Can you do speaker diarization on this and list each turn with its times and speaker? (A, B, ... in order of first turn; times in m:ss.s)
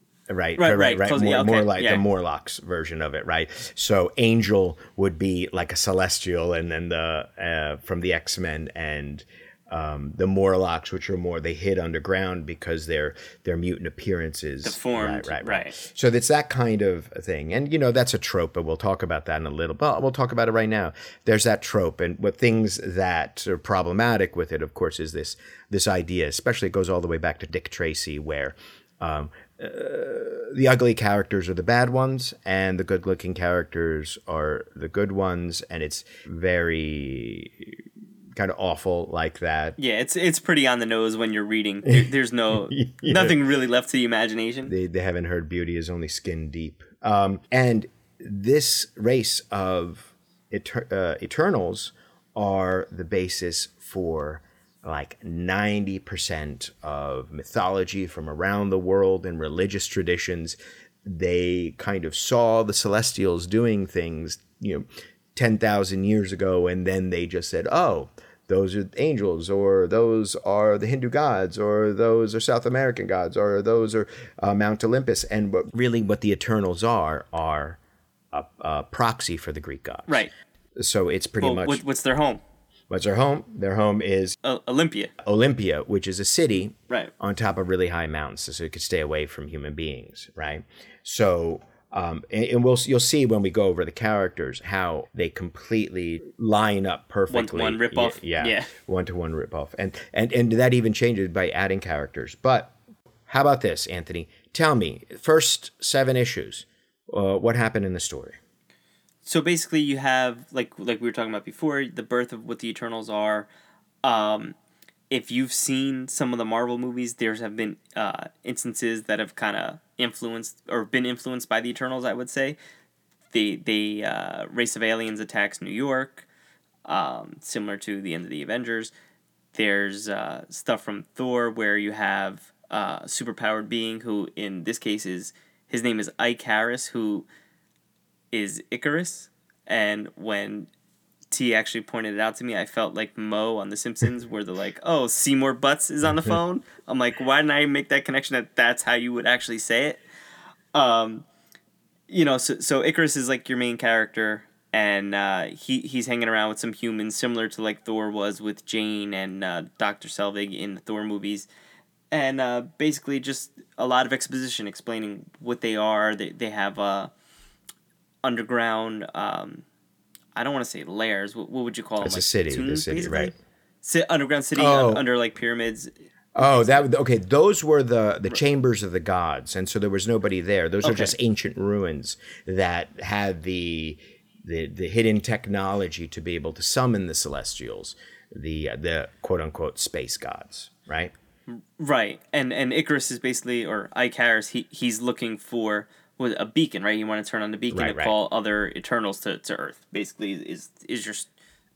0:00.3-0:37.8 A
0:00.6-0:02.0 B
0:14.6-0:15.8 B
0:38.4-0:39.8 A
0:39.8-0:44.7 B
0:41.9-0:43.4 A
0:44.7-1:17.8 A
1:18.3-1:20.2 A
1:20.8-1:21.8 A
1:21.4-1:22.4 B
1:22.9-1:24.4 A
1:24.4-1:25.1 B
1:25.2-1:42.7 A
1:37.3-1:38.7 B
1:43.3-1:48.4 A
1:49.2-1:53.5 B
1:54.0-1:54.6 B
1:55.1-2:02.6 B
2:03.3-2:06.2 B
2:06.9-2:08.9 B
2:09.5-2:17.2 B
2:18.3-2:20.7 B
2:21.3-2:30.0 B
2:30.7-2:31.2 B
2:32.1-2:41.5 B
2:42.1-2:47.1 B
2:48.2-2:49.6 B
2:50.4-2:56.9 B
2:52.0-2:53.3 A
2:54.6-2:55.1 A
2:56.4-3:11.1 A
3:00.8-3:01.1 B
3:11.5-3:21.3 B
3:17.7-3:18.1 A